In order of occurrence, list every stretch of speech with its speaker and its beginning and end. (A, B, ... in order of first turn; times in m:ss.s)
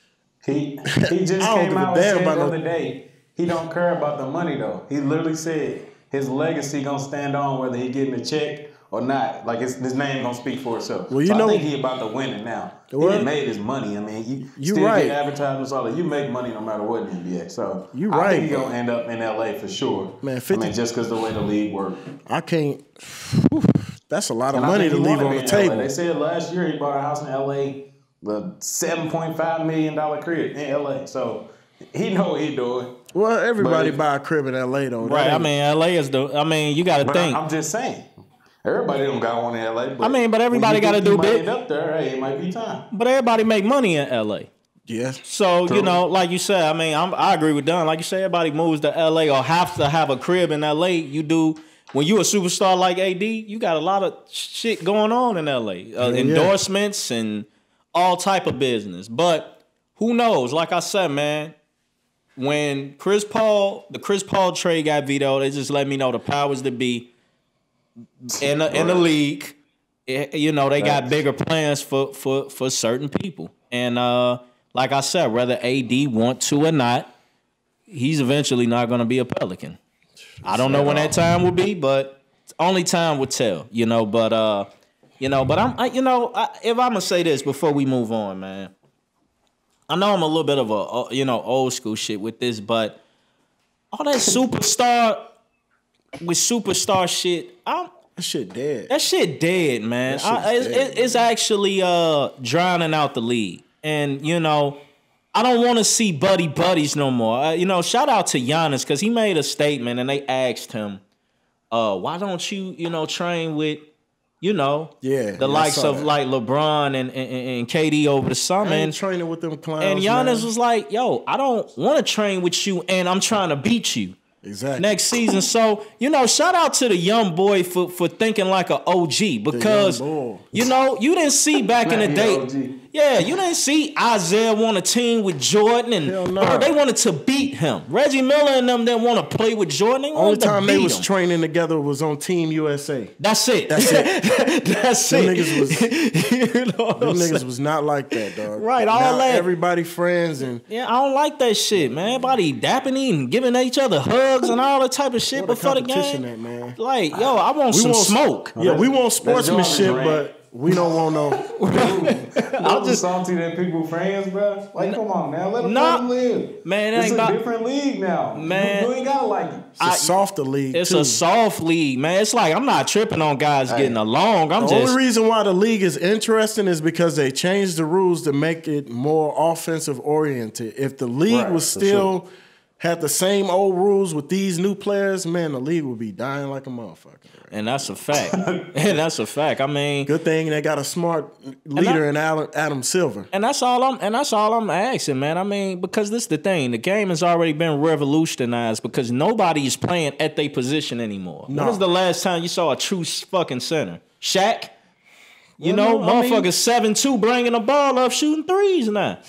0:00.4-0:22.0 A
0:01.4-0:02.5 B
0:11.1-0:11.6 B
0:12.9-0:13.3 B
0:14.6-0:15.2 B
0:17.9-0:18.7 B
0:20.2-0:20.7 B
0:22.2-0:25.9 B
0:24.5-0:32.9 A
0:33.1-0:35.5 B
0:33.6-0:34.0 A
0:35.0-0:37.4 C
0:37.0-0:38.1 A
0:38.6-0:42.8 A
0:40.0-0:41.4 C
0:42.9-0:44.5 C
0:44.9-0:45.2 B
0:45.2-1:01.5 C
0:45.7-0:46.0 A
0:56.0-0:56.6 B
1:02.4-1:07.1 C
1:08.2-1:17.1 C
1:08.4-1:09.1 A
1:10.8-1:11.2 A
1:17.9-1:19.8 C
1:20.4-1:21.2 B
1:20.4-1:24.7 C
1:25.2-1:28.7 C
1:29.9-1:33.0 C
1:33.9-1:35.2 C
1:36.2-1:37.9 C
1:38.2-1:38.9 B
1:38.9-1:44.8 C
1:40.0-1:41.3 B
1:45.3-1:51.0 C
1:51.7-1:53.8 C
1:54.4-1:59.0 C
1:55.0-1:56.1 B
1:58.6-2:00.5 B
1:59.8-2:04.2 C
2:04.4-2:05.0 B
2:04.8-2:10.0 C
2:09.5-2:10.7 B
2:10.5-2:21.1 C
2:11.8-2:12.8 A
2:16.0-2:16.8 B
2:20.1-2:23.1 B
2:23.2-2:27.4 C
2:23.7-2:24.1 B
2:25.1-2:25.9 B
2:27.0-2:30.6 B
2:28.1-2:29.5 C
2:30.7-2:36.2 C
2:35.3-2:36.8 B
2:36.8-2:38.5 C
2:37.7-2:41.4 B
2:38.6-2:40.3 A
2:41.4-2:43.0 C
2:41.7-2:49.7 A
2:45.6-2:46.0 C
2:46.6-2:47.4 C
2:48.3-2:48.9 C
2:49.8-2:50.2 C
2:49.8-2:51.2 B
2:50.7-2:55.0 C
2:53.7-2:54.0 A
2:54.6-3:02.3 B
3:01.3-3:02.1 A
3:02.8-3:07.5 B
3:07.5-3:10.1 C
3:10.0-3:13.3 B
3:11.7-3:12.0 C
3:13.3-3:24.7 C
3:21.5-3:21.8 B
3:25.6-3:29.2 C
3:25.6-3:26.5 B